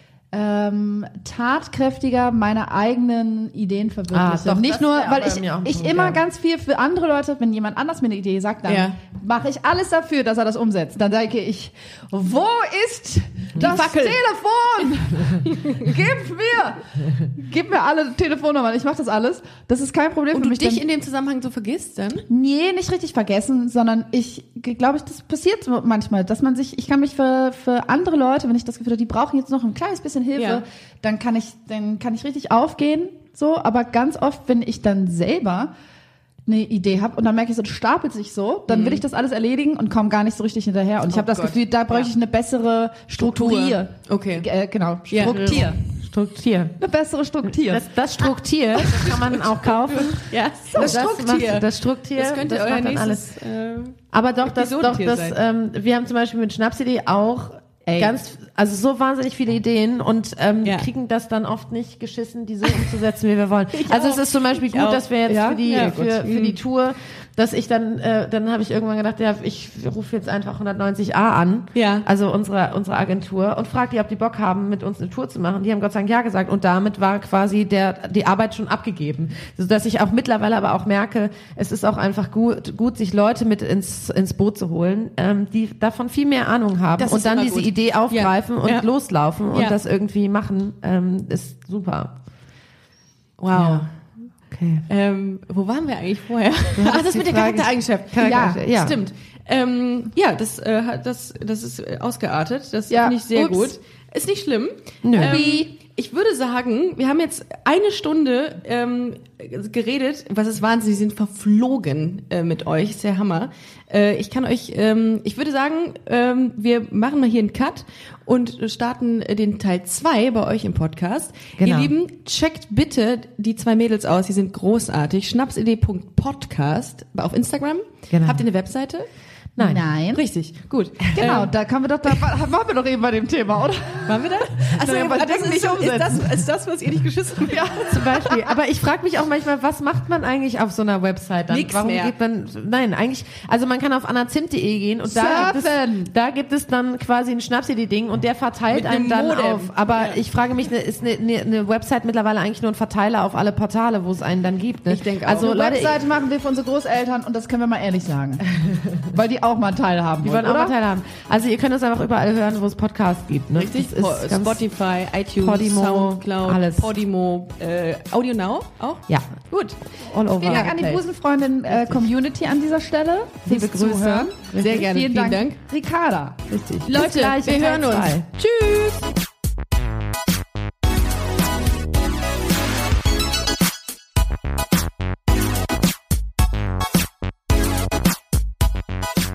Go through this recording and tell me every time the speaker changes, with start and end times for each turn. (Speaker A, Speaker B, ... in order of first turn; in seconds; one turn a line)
Speaker A: 0.3-20.8
Speaker B: 4.1-6.2
Speaker C: 8.7-9.0
Speaker C: 13.6-14.2
Speaker C: 20.3-22.3
Speaker A: 22.3-35.7
Speaker C: 30.4-30.6
Speaker A: 36.5-45.8
Speaker C: 38.7-39.0
Speaker C: 41.1-42.1
Speaker C: 43.2-44.5
Speaker C: 45.1-45.7
Speaker B: 45.2-46.8
Speaker A: 46.8-47.9
Speaker B: 47.5-53.3
Speaker C: 49.0-55.4
Speaker A: 50.7-51.1
Speaker B: 54.1-92.1
Speaker A: 57.9-58.1
Speaker C: 60.6-60.9
Speaker C: 63.7-66.6
Speaker A: 65.3-65.8
Speaker C: 71.7-72.1
Speaker C: 87.0-88.9
Speaker C: 89.5-89.8
Speaker C: 93.4-93.9
Speaker B: 94.5-94.8
Speaker C: 94.9-129.1
Speaker B: 96.8-99.0
Speaker A: 98.2-98.6
Speaker A: 102.9-103.7
Speaker B: 105.0-105.4
Speaker A: 105.2-105.7
Speaker B: 121.6-121.9
Speaker B: 128.1-128.4
Speaker B: 129.6-129.8
Speaker A: 129.6-130.2
Speaker C: 130.1-131.5
Speaker A: 131.1-136.5
Speaker C: 134.1-138.3
Speaker A: 137.4-138.5
Speaker B: 137.9-156.0
Speaker C: 141.5-142.2
Speaker A: 145.0-146.1
Speaker C: 148.7-150.2
Speaker C: 154.9-155.7
Speaker A: 155.3-158.4
Speaker A: 159.1-160.7
Speaker B: 160.2-164.6
Speaker C: 163.6-169.8
Speaker B: 165.4-166.9
Speaker B: 170.0-171.0
Speaker A: 170.4-177.0
Speaker C: 170.4-170.7
Speaker C: 171.7-172.1
Speaker B: 173.4-174.6
Speaker C: 174.5-175.6
Speaker B: 176.5-178.2
Speaker C: 176.8-179.1